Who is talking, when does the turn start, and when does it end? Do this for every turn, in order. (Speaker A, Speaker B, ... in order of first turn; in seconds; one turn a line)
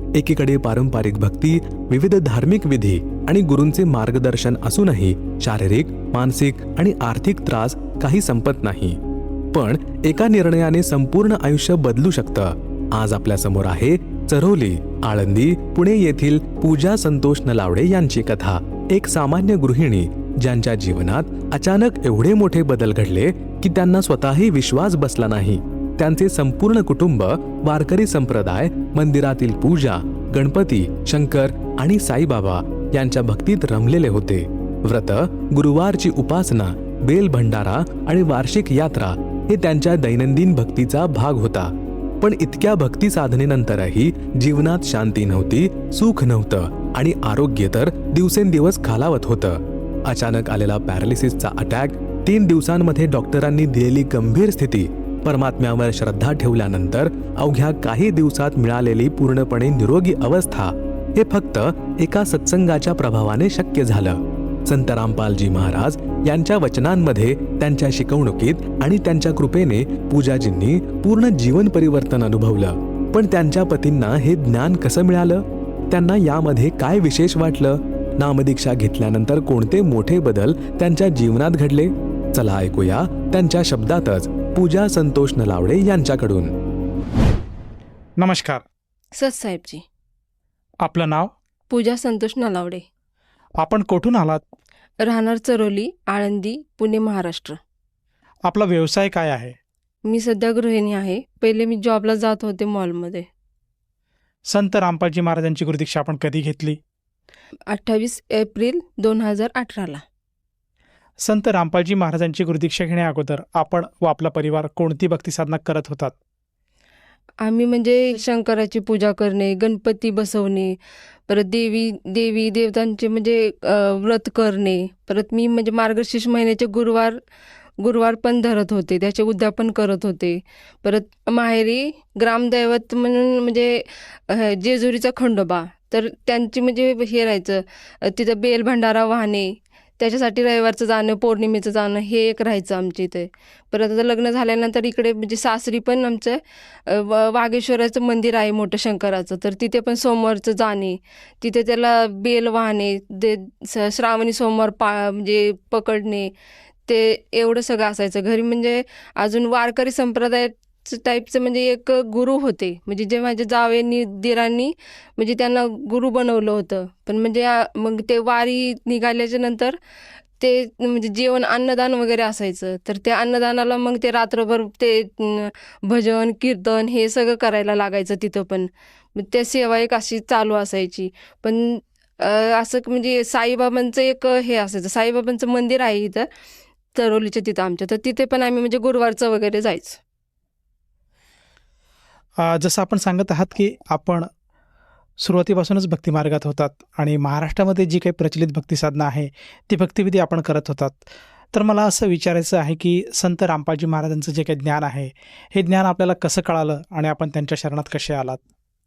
Speaker A: 0.1-9.0
Speaker A: 9.5-86.5
Speaker B: 88.2-88.6
Speaker C: 89.2-89.8
Speaker B: 90.8-91.3
Speaker C: 91.7-92.8
Speaker B: 93.6-94.4
Speaker C: 95.0-97.6
Speaker B: 98.5-99.5
Speaker C: 100.0-103.3
Speaker B: 104.5-106.8
Speaker C: 107.7-110.0
Speaker B: 111.2-116.1
Speaker C: 117.4-120.8
Speaker C: 121.3-127.2
Speaker C: 127.8-156.3
Speaker C: 156.9-169.8
Speaker C: 170.4-186.3
Speaker C: 186.9-190.0
Speaker B: 192.4-194.2
Speaker B: 195.2-208.4